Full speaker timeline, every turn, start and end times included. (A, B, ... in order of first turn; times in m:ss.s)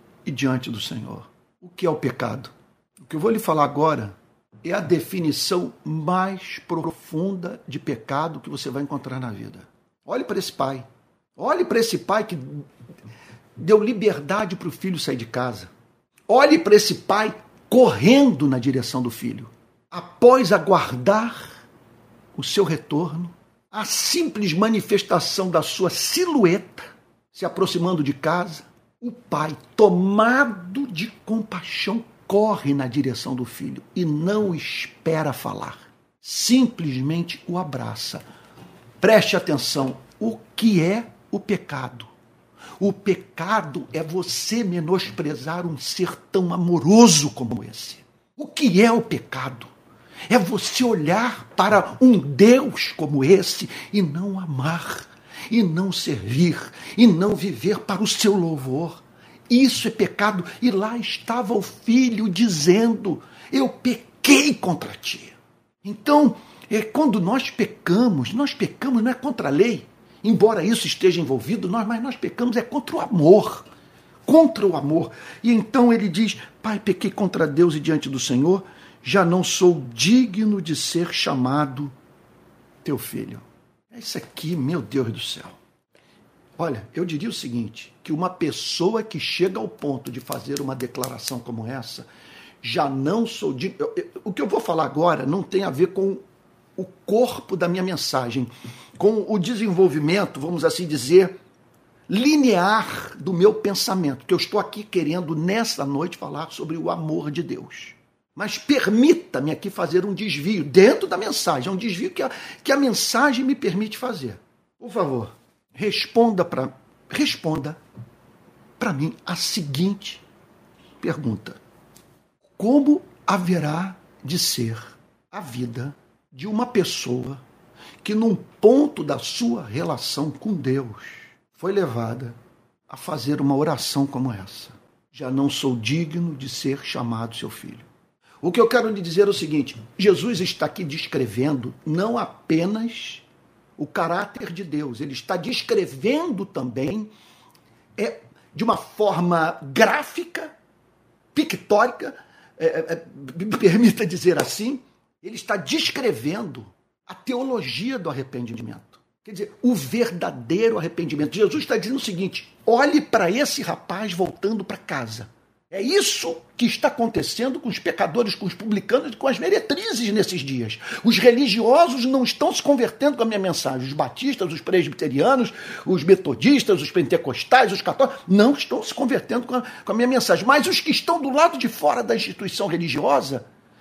0:00.2-0:10.8 A
0:11.4-0:12.6 A
0:13.6-0:15.7 A
0:16.3-0:21.6 A
0:22.4-0:38.2 A
0:39.0-0:42.1 A
0:42.8-0:49.7 A
0:50.3-1:13.7 A
1:14.2-1:21.9 A
1:22.8-1:25.6 A
1:26.6-1:32.1 A
1:32.6-1:36.2 A
1:36.8-1:41.3 A
1:42.1-1:57.8 A
1:58.8-2:00.2 A
2:01.0-2:01.6 A
2:02.6-2:07.4 A
2:08.0-2:12.4 A
2:12.9-2:17.9 A
2:18.4-2:23.2 A
2:23.8-2:27.1 A
2:28.0-2:30.5 A
2:31.3-3:03.4 A